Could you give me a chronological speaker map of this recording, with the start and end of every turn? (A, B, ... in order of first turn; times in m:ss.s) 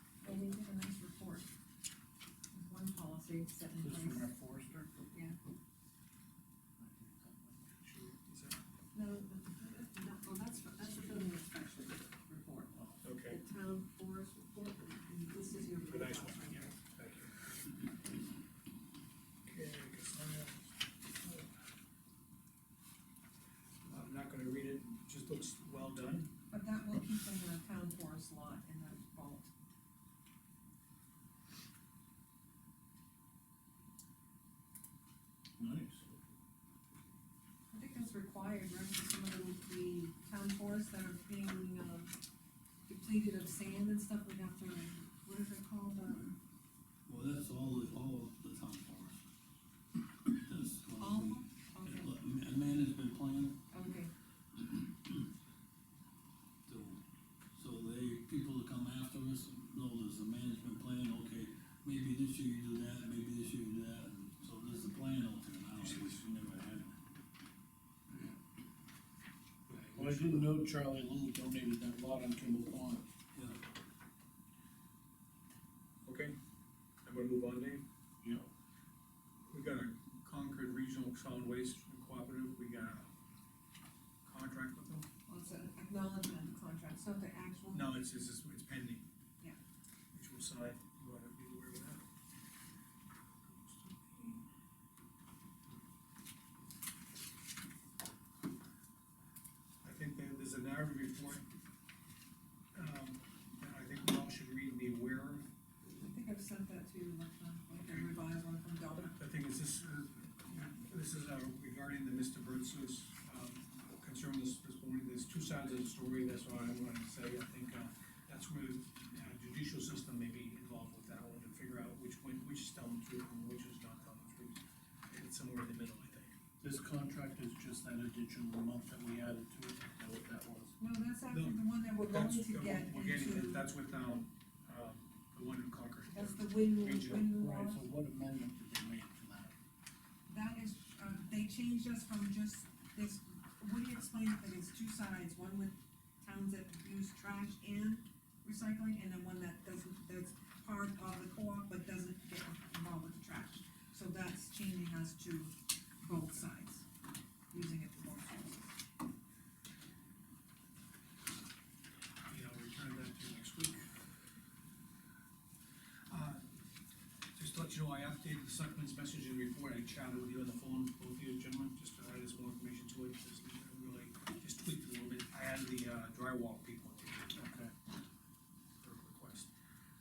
0:00.2-0:01.5 A
0:02.5-0:04.3 A
0:03.8-0:04.9 B
0:06.8-0:07.6 B
0:07.7-0:08.6 C
0:08.9-0:16.8 A
0:13.0-0:13.4 C
0:15.8-0:17.3 C
0:19.5-0:20.6 C
0:23.8-0:26.3 C
0:26.5-0:29.5 A
0:35.6-0:36.2 B
0:37.7-0:42.2 A
0:42.9-0:46.4 A
0:47.1-0:49.2 D
0:50.4-0:53.6 D
0:51.0-0:52.1 A
0:53.7-0:54.1 A
0:56.7-0:57.0 D
0:57.5-1:07.0 D
1:05.8-1:06.1 C
1:09.7-1:10.1 C
1:10.0-1:13.1 B
1:10.0-1:10.4 D
1:13.3-1:13.6 D
1:16.0-1:16.4 C
1:17.0-1:17.8 C
1:18.2-1:18.5 B
1:19.5-1:23.1 C
1:24.2-1:25.1 C
1:25.3-1:27.9 A
1:27.7-1:29.0 C
1:30.1-1:32.0 C
1:33.5-1:33.8 C
1:33.9-1:34.4 A
1:39.8-1:41.5 C
1:42.7-1:45.5 C
1:45.9-1:49.2 A
1:47.8-1:48.1 C
1:49.0-2:06.3 C
2:06.6-2:10.8 B
2:10.8-2:13.6 A
2:11.3-2:17.3 C
2:16.1-2:17.8 A
2:17.3-2:19.6 B
2:20.3-2:36.9 A
2:37.5-2:38.8 A
2:42.3-2:43.9 C
2:46.1-2:46.5 C
2:47.4-2:57.4 C
2:57.3-2:57.7 B
2:58.8-2:59.5 C